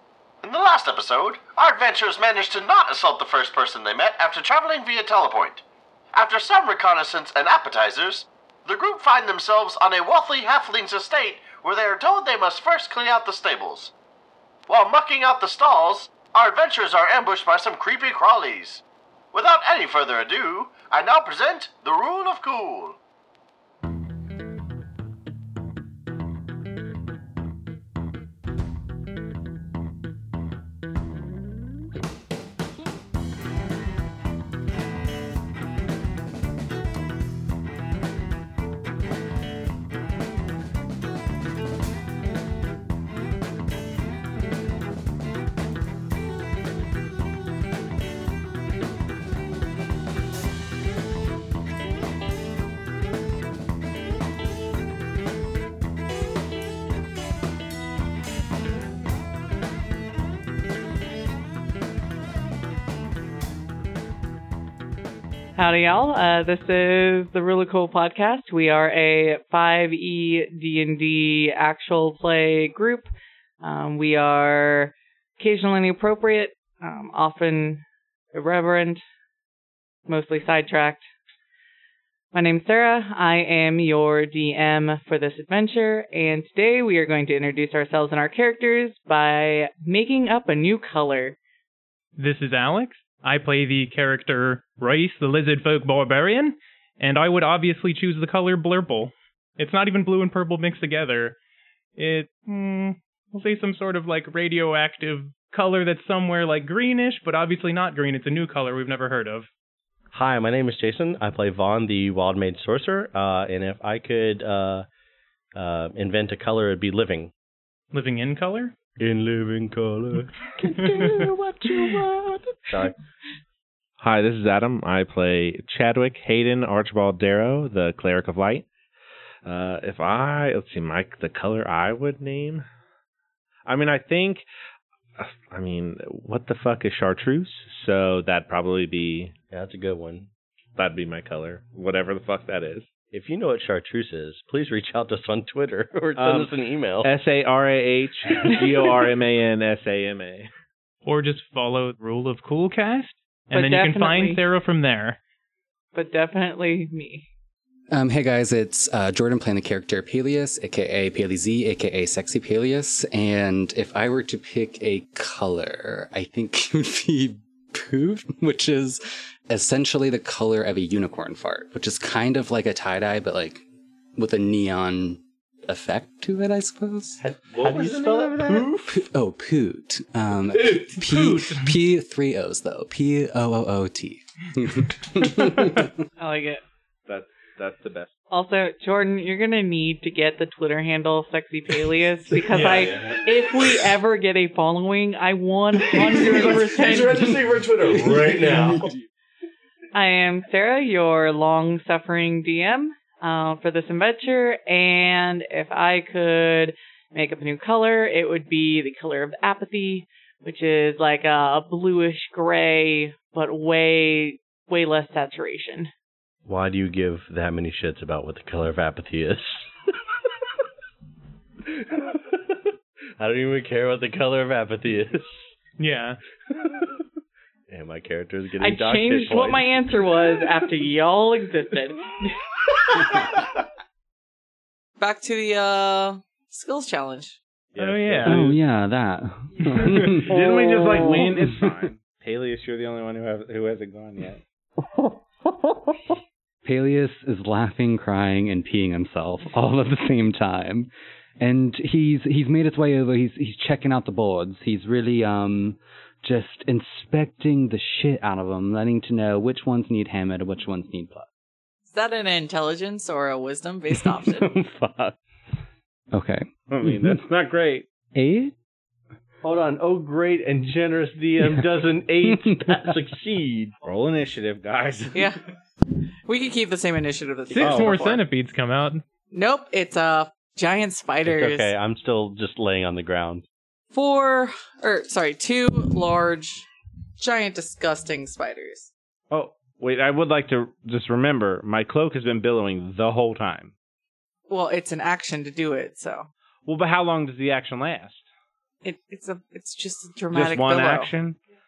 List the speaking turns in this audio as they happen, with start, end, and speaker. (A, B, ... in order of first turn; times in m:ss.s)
0:00.4-0:13.9 A
0:14.7-0:23.0 A
1:05.6-1:13.1 B
1:13.6-1:19.0 B
1:20.1-1:21.0 B
1:22.3-1:31.4 B
1:32.2-1:41.4 C
1:42.0-1:49.5 C
1:50.1-1:54.9 D
1:55.5-1:57.3 D
1:57.9-1:58.7 C
1:59.0-2:02.9 D
2:04.0-2:08.6 E
2:09.4-2:12.7 E
2:13.7-2:14.4 E
2:15.2-2:19.3 E
2:19.5-2:20.3 D
2:20.8-2:22.9 E
2:23.1-2:27.1 D
2:26.2-2:26.5 E
2:27.0-2:30.5 E
2:31.0-2:35.2 C
2:33.5-2:34.4 B
2:35.9-2:37.3 B
2:37.9-2:53.6 F
2:54.2-2:57.2 F
2:57.2-2:59.0 D
2:57.5-2:58.7 E
2:58.9-3:05.9 F
3:00.9-3:01.7 C
3:06.2-3:06.6 B
3:07.1-3:08.1 E
3:08.3-3:17.4 B
3:12.5-3:12.9 C
3:12.6-3:13.1 E
3:15.9-3:18.9 D
3:19.9-3:35.9 B
3:36.5-3:39.7 D
3:41.7-3:42.7 D
3:43.2-3:45.5 D
3:45.8-3:46.2 C
3:47.7-3:49.7 D
3:48.6-3:53.2 B
3:55.0-3:57.4 G
3:57.7-3:58.6 E
3:57.8-3:58.5 C
3:58.2-4:00.4 F
3:59.7-4:04.4 E
4:00.4-4:01.3 D
4:01.2-4:01.7 F
4:06.6-4:21.2 F
4:21.9-4:24.5 G
4:24.2-4:25.2 D
4:26.1-4:27.2 F
4:26.7-4:27.8 E
4:28.1-4:28.5 F
4:29.4-4:33.8 D
4:32.2-4:32.9 F
4:33.8-4:35.3 E
4:35.1-4:35.4 G
4:36.2-4:38.2 G
4:37.5-4:38.1 D
4:37.5-4:39.0 C
4:37.6-4:38.0 E
4:39.3-4:41.7 G
4:41.2-4:43.4 D
4:43.9-4:46.7 G
4:47.2-4:48.9 G
4:49.3-4:53.7 E
4:54.5-4:56.3 G
4:56.6-4:58.2 E
4:58.8-5:01.1 G
5:00.3-5:01.4 E